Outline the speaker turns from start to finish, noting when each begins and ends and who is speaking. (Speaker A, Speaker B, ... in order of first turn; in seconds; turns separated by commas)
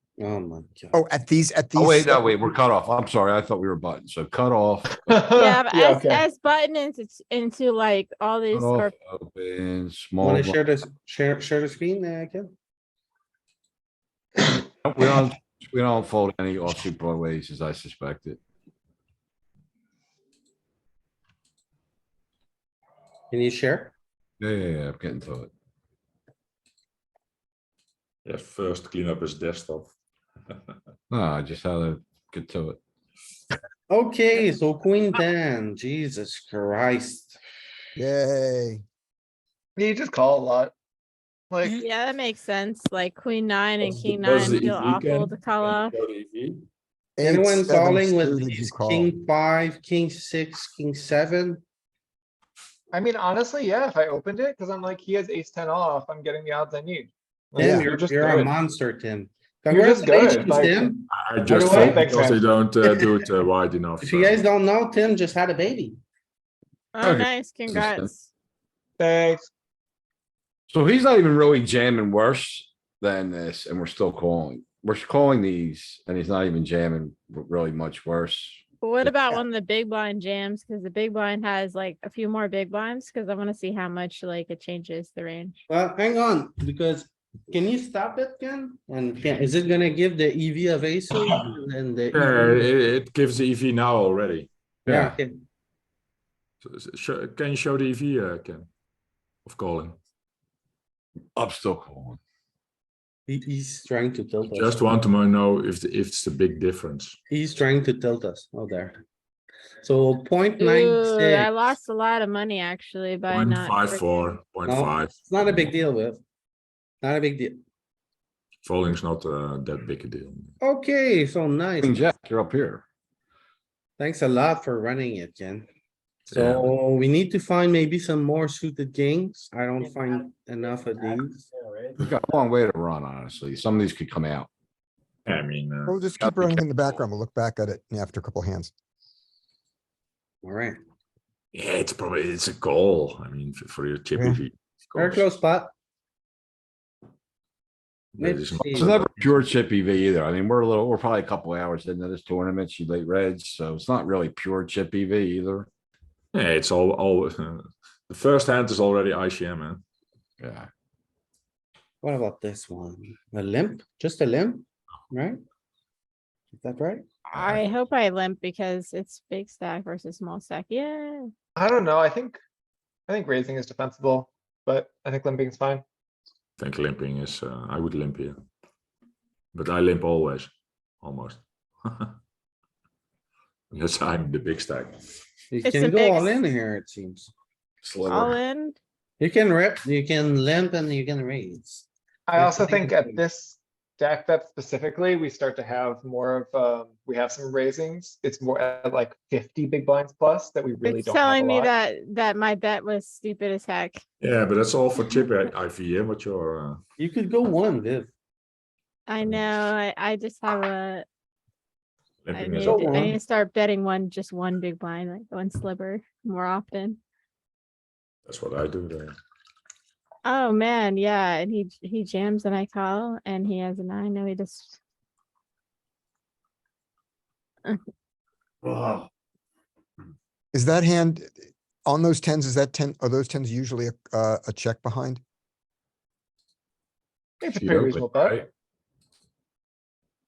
Speaker A: 0.2-0.9, Speaker B: 0.9-2.3, Speaker C: 1.8-5.2, Speaker D: 5.0-6.2, Speaker E: 5.3-8.9, Speaker C: 8.5-10.6, Speaker A: 10.2-12.5, Speaker C: 14.8-18.4, Speaker A: 23.3-23.9, Speaker C: 24.4-25.5, Speaker F: 28.2-29.9, Speaker C: 31.1-32.8, Speaker A: 33.9-37.4, Speaker B: 38.0-38.8, Speaker D: 39.8-40.7, Speaker D: 41.5-41.8, Speaker E: 41.6-45.9, Speaker F: 43.8-46.6, Speaker B: 47.2-49.1, Speaker A: 47.2-51.6, Speaker D: 52.9-58.5, Speaker B: 57.6-57.9, Speaker A: 57.6-62.0, Speaker D: 59.7-60.9, Speaker F: 61.1-64.4, Speaker D: 61.5-62.4, Speaker A: 64.0-66.0, Speaker E: 66.9-68.3, Speaker C: 67.0-68.1, Speaker D: 69.0-69.5, Speaker C: 70.7-79.4, Speaker E: 78.8-85.6, Speaker A: 85.7-92.6, Speaker F: 92.1-94.5, Speaker C: 94.8-95.2, Speaker A: 94.9-95.4, Speaker F: 96.6-98.7, Speaker F: 99.5-100.0, Speaker C: 101.3-102.2, Speaker A: 103.3-104.9, Speaker F: 104.5-107.2, Speaker A: 107.3-109.0, Speaker A: 109.8-111.7, Speaker E: 110.6-114.0, Speaker F: 113.3-115.7, Speaker A: 114.6-116.2, Speaker A: 117.0-117.6, Speaker F: 118.6-120.5, Speaker A: 120.6-122.1, Speaker C: 121.8-122.8, Speaker A: 124.0-125.7, Speaker F: 126.3-126.7, Speaker A: 126.3-131.5, Speaker C: 132.0-134.5, Speaker F: 135.2-136.1, Speaker B: 135.9-138.7, Speaker C: 136.2-136.7, Speaker A: 140.4-140.8, Speaker F: 141.5-145.3, Speaker A: 144.9-145.7, Speaker F: 148.2-149.0, Speaker A: 148.2-149.1, Speaker C: 148.7-155.7, Speaker F: 156.3-159.8, Speaker C: 160.4-160.7, Speaker A: 162.0-165.4, Speaker A: 166.5-167.2, Speaker E: 167.3-171.3, Speaker C: 167.3-167.6, Speaker D: 171.6-172.4, Speaker D: 173.1-175.8, Speaker F: 176.6-178.4, Speaker F: 179.5-180.5, Speaker F: 181.0-182.1, Speaker F: 183.7-185.0, Speaker A: 185.5-187.3, Speaker E: 185.6-186.3, Speaker C: 187.8-188.4, Speaker E: 188.1-188.8, Speaker A: 189.2-193.2, Speaker D: 192.3-201.7, Speaker E: 200.8-204.0, Speaker F: 204.2-206.8, Speaker A: 207.0-208.1, Speaker E: 209.1-211.1, Speaker F: 212.2-213.2, Speaker E: 212.3-217.0, Speaker A: 212.6-213.2, Speaker F: 218.2-219.1, Speaker E: 220.2-224.8, Speaker B: 230.5-235.2, Speaker D: 237.4-238.4, Speaker F: 237.6-238.5